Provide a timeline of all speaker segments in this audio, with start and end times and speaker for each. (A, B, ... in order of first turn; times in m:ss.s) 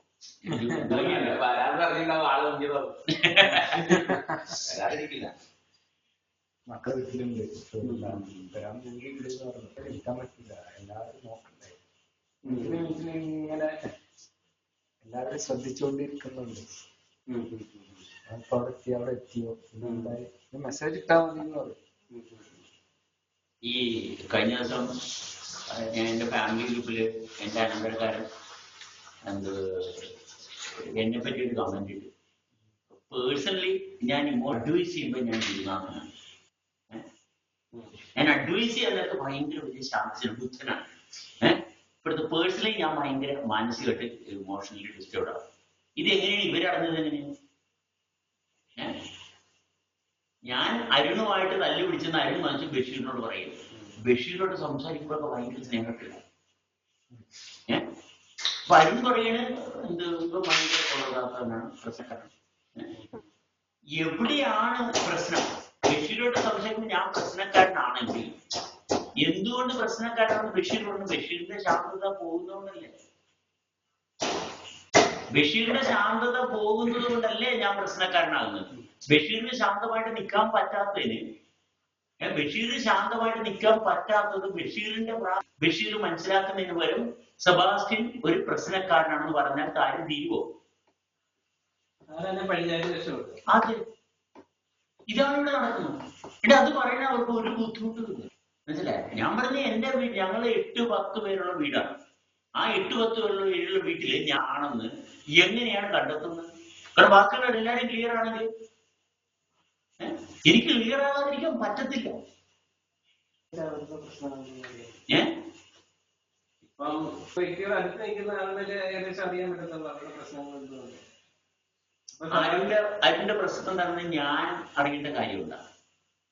0:00.4-0:01.4 A
0:00.6-0:05.3 B
0:03.1-0:03.8 A
0:03.9-0:04.4 C
0:06.7-0:11.8 C
0:07.8-0:08.3 D
0:12.4-0:13.0 D
0:12.5-0:13.7 C
0:15.0-0:16.8 C
0:17.3-0:18.0 D
0:18.3-0:21.8 C
0:19.8-0:20.2 D
0:22.1-0:22.4 D
0:23.6-0:24.9 A
0:25.7-0:28.3 A
0:29.2-0:30.2 A
0:30.8-0:32.1 A
0:33.0-0:36.1 A
0:38.2-0:40.9 A
0:41.4-0:45.4 A
0:46.0-0:47.3 A
0:50.5-0:56.2 A
0:58.7-1:02.9 A
1:04.0-1:08.3 A
1:09.2-1:12.9 A
1:15.3-1:21.2 A
1:22.2-1:30.5 A
1:32.1-1:33.4 D
1:33.5-1:33.8 A
1:35.1-1:41.9 A
1:42.6-1:48.5 A
1:50.0-1:52.1 A
1:53.5-1:54.9 D
1:56.8-2:01.0 D
2:02.2-2:02.7 D
2:02.3-2:05.6 A